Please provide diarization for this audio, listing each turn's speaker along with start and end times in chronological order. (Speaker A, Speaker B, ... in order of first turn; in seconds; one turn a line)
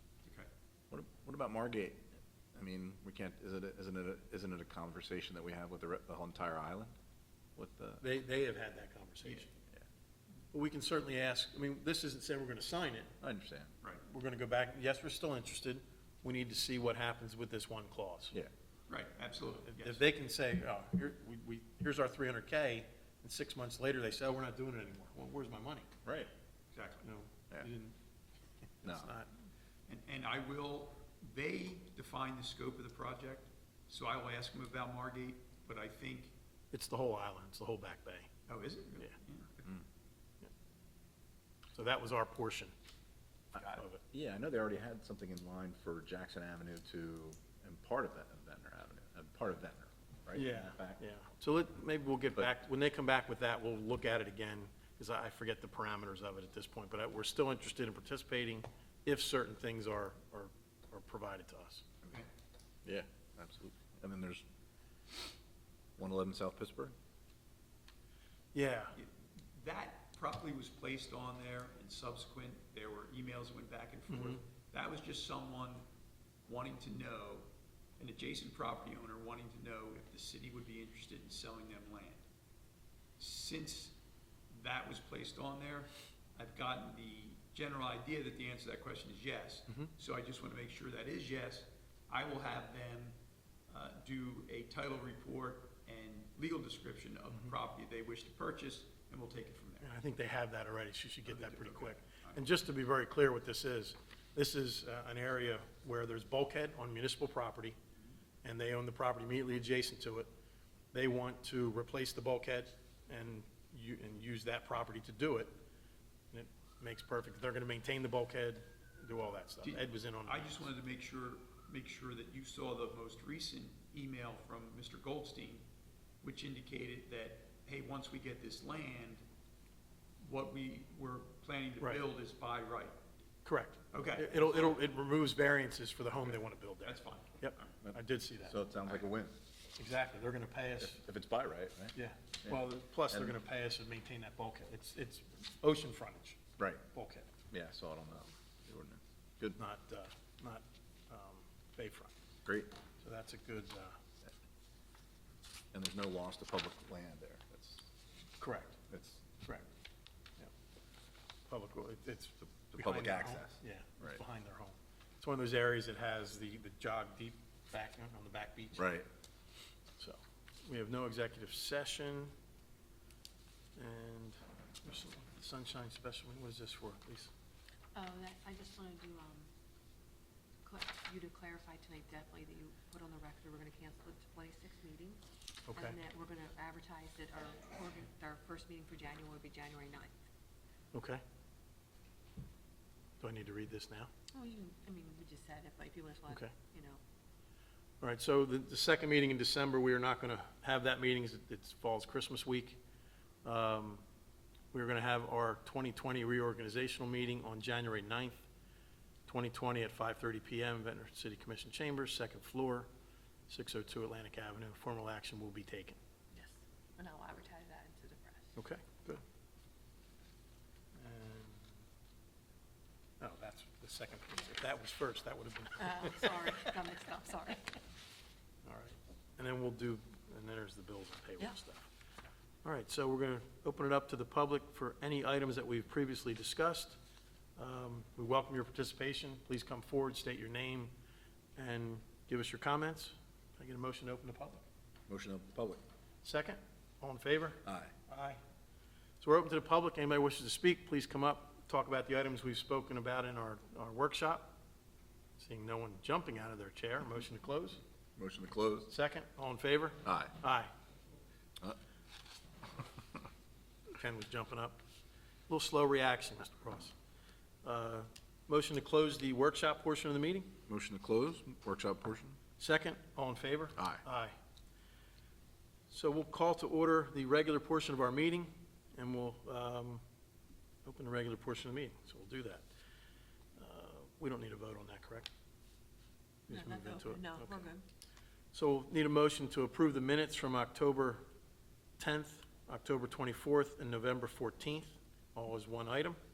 Speaker A: 0.2-0.5
Speaker B: 0.9-6.9
Speaker B: 7.6-8.0
Speaker C: 8.0-9.5
Speaker C: 10.5-13.1
Speaker B: 13.2-13.7
Speaker C: 14.0-18.4
Speaker A: 18.9-20.0
Speaker C: 19.7-25.9
Speaker B: 26.1-26.3
Speaker A: 26.7-27.1
Speaker C: 27.0-28.0
Speaker C: 28.8-29.3
Speaker B: 28.8-29.1
Speaker A: 29.9-36.3
Speaker C: 36.7-38.3
Speaker A: 38.5-39.6
Speaker C: 41.7-42.7
Speaker A: 43.6-43.8
Speaker C: 43.7-44.0
Speaker B: 44.1-51.0
Speaker C: 50.3-61.9
Speaker B: 62.9-64.4
Speaker B: 66.0-66.9
Speaker C: 68.5-69.0
Speaker A: 69.0-75.8
Speaker C: 74.1-74.4
Speaker A: 76.5-77.5
Speaker A: 78.0-82.2
Speaker A: 83.2-84.0
Speaker A: 84.5-93.2
Speaker A: 93.7-99.9
Speaker C: 99.8-107.8
Speaker A: 101.3-102.4
Speaker C: 108.4-110.3
Speaker C: 110.9-115.6
Speaker C: 116.3-120.7
Speaker A: 119.6-125.7
Speaker A: 126.2-129.2
Speaker A: 130.2-133.0
Speaker C: 133.4-138.6
Speaker A: 133.9-134.8
Speaker A: 136.8-137.7
Speaker B: 137.8-139.4
Speaker C: 139.8-141.0
Speaker B: 140.8-143.4
Speaker C: 141.9-147.3
Speaker B: 146.6-146.8
Speaker B: 147.5-149.6
Speaker C: 149.6-152.1
Speaker B: 152.5-152.7
Speaker C: 153.0-154.0
Speaker B: 155.7-157.9
Speaker C: 158.4-158.8
Speaker B: 158.9-159.2
Speaker C: 161.5-168.9
Speaker B: 162.7-164.2
Speaker B: 168.8-169.1
Speaker C: 170.0-172.3
Speaker C: 173.8-177.3
Speaker D: 177.9-179.5
Speaker D: 180.6-185.2
Speaker C: 185.7-186.0
Speaker D: 185.7-190.1
Speaker C: 190.9-191.2
Speaker C: 193.2-194.1
Speaker D: 194.3-197.0
Speaker C: 198.0-202.8
Speaker C: 203.4-204.0
Speaker C: 204.7-208.5
Speaker C: 209.3-212.9
Speaker C: 213.5-216.0
Speaker D: 216.3-218.6
Speaker C: 218.6-219.2
Speaker C: 221.0-221.8
Speaker C: 223.2-226.7
Speaker D: 225.8-227.7
Speaker C: 228.7-231.9
Speaker C: 232.6-237.0
Speaker C: 237.6-240.9
Speaker C: 241.6-244.6
Speaker B: 245.1-245.8
Speaker C: 246.2-248.4
Speaker B: 247.7-247.9
Speaker C: 249.2-254.6
Speaker C: 255.4-257.8
Speaker B: 258.2-258.9
Speaker C: 258.9-260.7
Speaker B: 260.1-260.3
Speaker C: 264.0-264.8
Speaker C: 265.5-266.9
Speaker C: 267.6-270.5
Speaker B: 270.7-272.4
Speaker C: 272.6-274.3
Speaker B: 273.8-274.0
Speaker C: 275.9-280.0
Speaker C: 280.9-282.6
Speaker C: 283.6-285.3
Speaker C: 286.5-287.7
Speaker D: 286.5-287.9
Speaker C: 288.5-291.2
Speaker C: 292.0-296.2